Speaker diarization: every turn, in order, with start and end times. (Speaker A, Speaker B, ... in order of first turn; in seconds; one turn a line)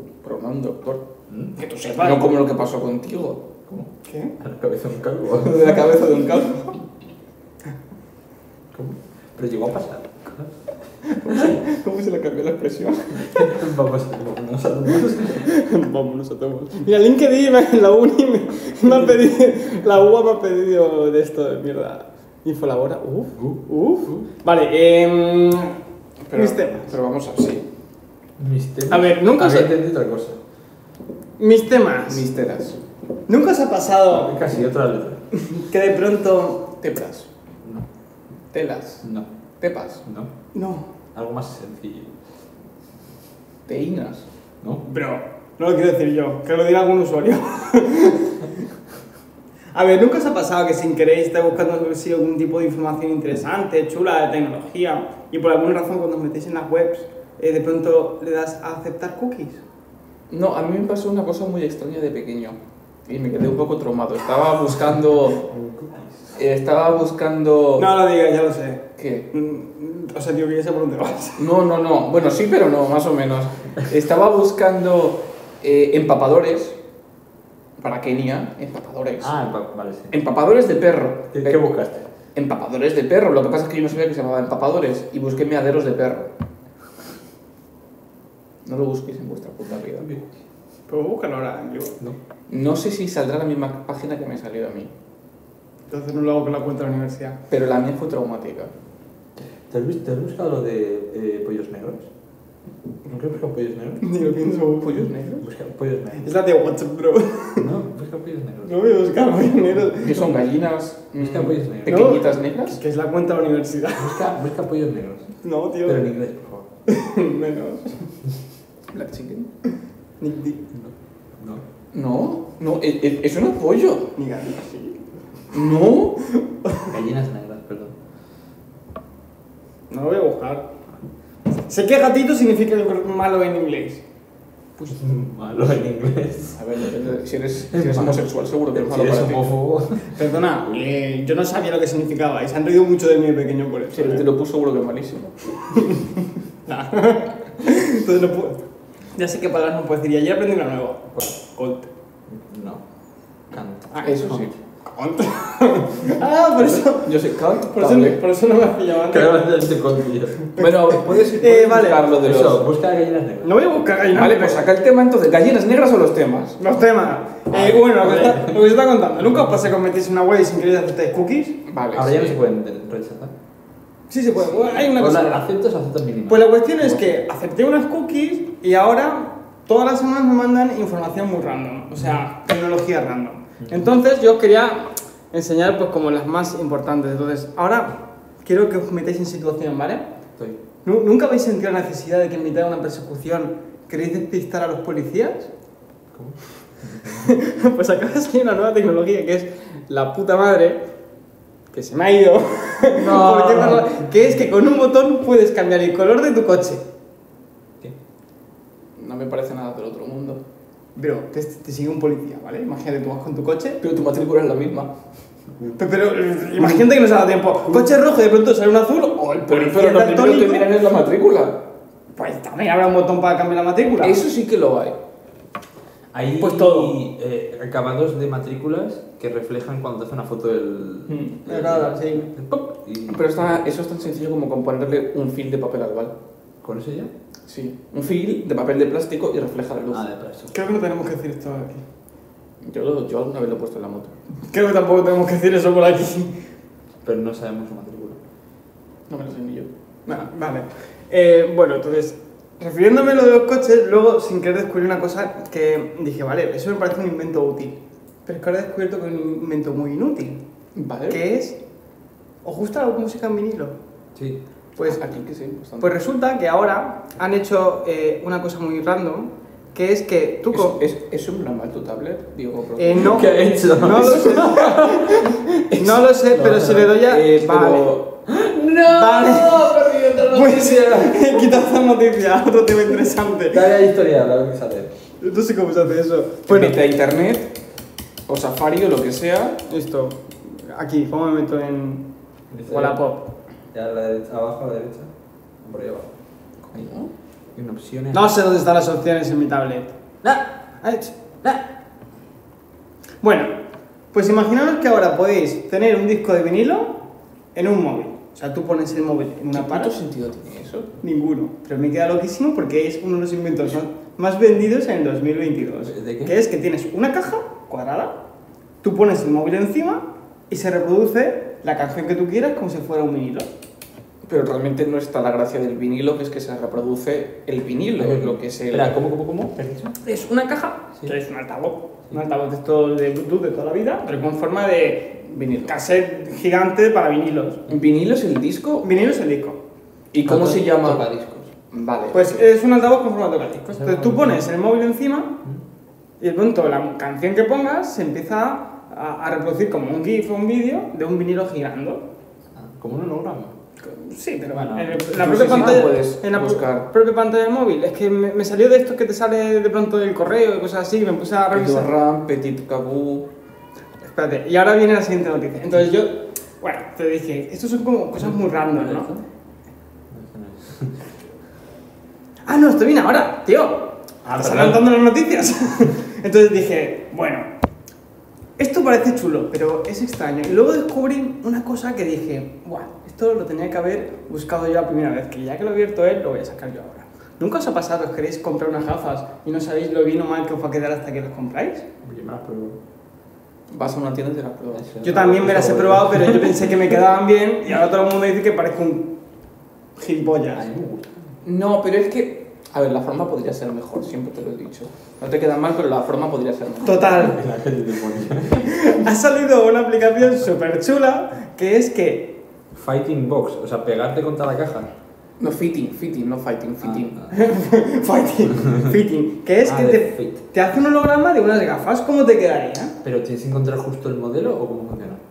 Speaker A: 0.2-1.0
Speaker B: 1.3-1.5
Speaker C: 1.6-2.3
Speaker A: 1.9-3.4
Speaker B: 3.7-5.8
Speaker C: 4.0-4.3
Speaker A: 5.4-6.8
Speaker B: 8.7-10.5
Speaker A: 11.1-13.5
Speaker B: 13.3-15.5
Speaker C: 15.4-25.8
Speaker B: 23.3-24.3
Speaker A: 26.3-27.6
Speaker C: 26.3-26.9
Speaker B: 28.4-30.4
Speaker C: 28.9-29.7
Speaker C: 31.4-32.2
Speaker A: 32.1-32.8
Speaker C: 33.3-34.4
Speaker B: 34.2-35.2
Speaker C: 35.3-36.7
Speaker A: 36.8-37.3
Speaker A: 38.5-39.0
Speaker B: 39.0-39.3
Speaker A: 39.6-40.0
Speaker B: 40.0-40.3
Speaker C: 40.5-40.9
Speaker B: 41.1-42.1
Speaker A: 43.7-44.2
Speaker C: 44.9-48.5
Speaker C: 49.7-59.6
Speaker A: 60.3-65.4
Speaker B: 65.4-66.3
Speaker A: 66.3-67.9
Speaker C: 67.8-71.4
Speaker A: 69.0-69.3
Speaker A: 71.4-76.8
Speaker A: 77.8-79.3
Speaker B: 79.2-80.1
Speaker A: 80.1-81.7
Speaker B: 81.3-82.0
Speaker A: 82.3-86.3
Speaker A: 88.6-90.1
Speaker B: 90.0-90.2
Speaker C: 90.9-92.0
Speaker A: 92.5-94.9
Speaker C: 95.9-97.4
Speaker A: 97.5-98.7
Speaker B: 99.7-102.1
Speaker B: 103.0-104.0
Speaker C: 104.0-105.0
Speaker A: 104.8-105.5
Speaker B: 105.4-106.3
Speaker C: 106.2-107.7
Speaker B: 107.6-108.9
Speaker C: 108.6-110.2
Speaker A: 110.0-112.8
Speaker B: 111.2-112.2
Speaker C: 111.8-114.2
Speaker B: 114.0-115.3
Speaker C: 115.4-116.1
Speaker B: 115.8-116.7
Speaker C: 116.9-118.0
Speaker A: 118.9-119.5
Speaker C: 120.2-120.6
Speaker B: 120.7-121.6
Speaker A: 121.9-124.1
Speaker C: 124.2-125.0
Speaker A: 125.5-126.2
Speaker B: 126.9-127.9
Speaker C: 129.9-130.7
Speaker C: 131.7-134.0
Speaker B: 134.9-136.6
Speaker A: 136.5-139.5
Speaker B: 137.7-140.2
Speaker C: 140.1-144.2
Speaker A: 143.9-145.9
Speaker C: 146.7-148.6
Speaker C: 149.1-151.9
Speaker B: 152.3-152.8
Speaker B: 153.5-154.5
Speaker A: 154.0-154.5
Speaker C: 154.8-157.1
Speaker A: 156.7-158.2
Speaker C: 157.7-159.5
Speaker B: 159.1-160.5
Speaker C: 160.5-162.1
Speaker A: 160.6-162.7
Speaker B: 162.1-163.8
Speaker C: 163.4-164.6
Speaker A: 164.1-166.6
Speaker C: 166.6-171.6
Speaker B: 167.5-168.7
Speaker A: 171.7-172.4
Speaker B: 171.9-173.3
Speaker C: 174.1-175.4
Speaker B: 174.7-176.5
Speaker C: 176.3-190.1
Speaker B: 183.6-183.9
Speaker C: 190.8-195.5
Speaker B: 196.1-197.3
Speaker C: 197.1-200.8
Speaker C: 201.7-206.8
Speaker B: 203.0-203.9
Speaker A: 209.0-210.4
Speaker C: 210.9-213.8
Speaker A: 213.8-214.9
Speaker C: 215.8-220.7
Speaker A: 219.5-221.6
Speaker C: 222.1-224.2
Speaker A: 224.0-225.0
Speaker B: 226.1-233.5
Speaker C: 226.4-227.0
Speaker C: 231.4-232.3
Speaker A: 233.1-236.1
Speaker B: 236.6-237.1
Speaker A: 237.5-240.0
Speaker B: 239.9-240.7
Speaker C: 240.5-241.8
Speaker A: 242.6-244.2
Speaker C: 244.5-246.3
Speaker B: 247.0-248.2
Speaker A: 249.1-249.7
Speaker C: 250.1-260.4
Speaker A: 260.7-261.2
Speaker C: 261.1-261.6
Speaker C: 262.4-263.8
Speaker B: 264.1-264.4
Speaker C: 264.8-265.0
Speaker A: 264.8-266.0
Speaker C: 265.8-270.8
Speaker A: 270.5-273.3
Speaker C: 272.8-277.9
Speaker B: 272.9-275.2
Speaker A: 274.2-275.1
Speaker B: 276.3-276.9
Speaker A: 276.9-278.1
Speaker B: 278.3-281.6
Speaker C: 278.9-283.6
Speaker B: 283.5-284.9
Speaker C: 285.2-286.8
Speaker A: 286.5-287.5
Speaker A: 288.3-289.6
Speaker C: 289.6-292.0
Speaker B: 292.5-293.0
Speaker C: 292.7-293.3
Speaker B: 293.7-295.1
Speaker B: 295.6-296.1
Speaker A: 296.7-297.1
Speaker B: 297.5-298.3
Speaker C: 298.1-299.9
Speaker C: 300.8-301.1
Speaker C: 303.2-303.5
Speaker C: 304.1-307.0
Speaker C: 307.5-309.9
Speaker A: 309.5-310.9
Speaker C: 311.0-318.1
Speaker B: 315.8-316.3
Speaker C: 318.8-323.5
Speaker A: 324.2-328.9
Speaker B: 328.0-329.9
Speaker C: 330.0-337.6
Speaker A: 335.3-335.7
Speaker A: 337.7-339.1
Speaker C: 338.8-339.6
Speaker A: 340.1-342.5
Speaker B: 340.2-341.5
Speaker C: 342.1-345.3
Speaker B: 343.7-344.4
Speaker C: 346.2-352.0
Speaker B: 352.5-353.6
Speaker C: 353.8-361.9
Speaker B: 354.5-355.8
Speaker A: 355.1-356.9
Speaker A: 361.5-363.2
Speaker C: 364.0-369.1
Speaker B: 368.2-369.2
Speaker B: 370.1-371.1
Speaker C: 372.4-377.5
Speaker B: 374.2-374.9
Speaker C: 378.6-391.9
Speaker B: 392.0-392.8
Speaker A: 393.7-394.9
Speaker B: 394.7-396.7
Speaker C: 395.0-399.1
Speaker C: 400.0-400.6
Speaker B: 400.5-401.1
Speaker A: 401.4-407.2
Speaker C: 406.8-407.4
Speaker B: 407.2-408.8
Speaker C: 408.6-412.3
Speaker B: 412.7-414.9
Speaker A: 415.4-417.2
Speaker B: 416.8-417.3
Speaker C: 417.3-422.9
Speaker B: 419.6-420.4
Speaker B: 423.0-425.2